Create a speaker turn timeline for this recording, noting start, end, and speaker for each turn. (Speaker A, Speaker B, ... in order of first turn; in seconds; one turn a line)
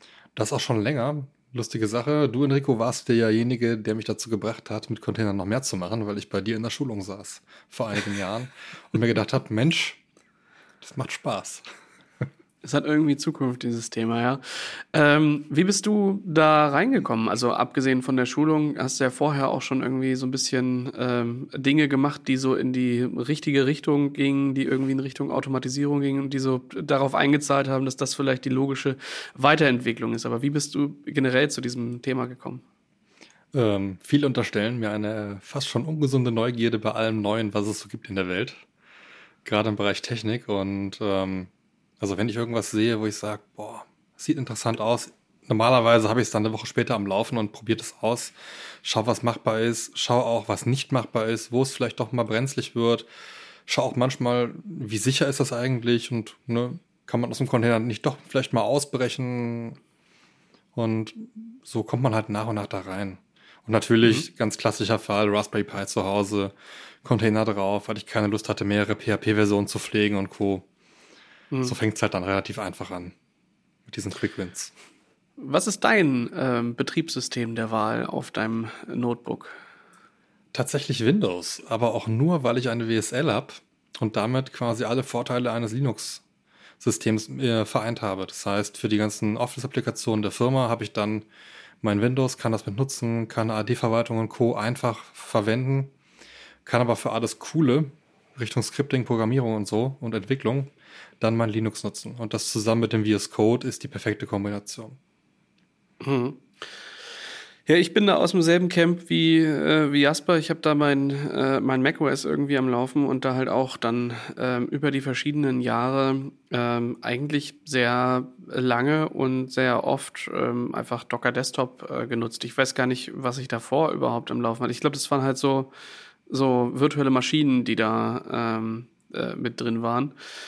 Speaker A: 0.3-10.0
Speaker A: 10.8-11.6
Speaker B: 12.6-32.6
Speaker A: 33.5-38.6
Speaker A: 39.4-41.5
Speaker A: 42.0-53.0
Speaker A: 53.7-59.8
Speaker A: 60.7-70.6
Speaker A: 71.6-73.1
Speaker A: 73.9-74.7
Speaker B: 75.4-79.6
Speaker A: 80.5-86.2
Speaker A: 86.8-91.3
Speaker A: 91.8-95.9
Speaker A: 96.7-105.0
Speaker B: 106.0-106.5
Speaker B: 107.7-125.7
Speaker B: 126.3-130.1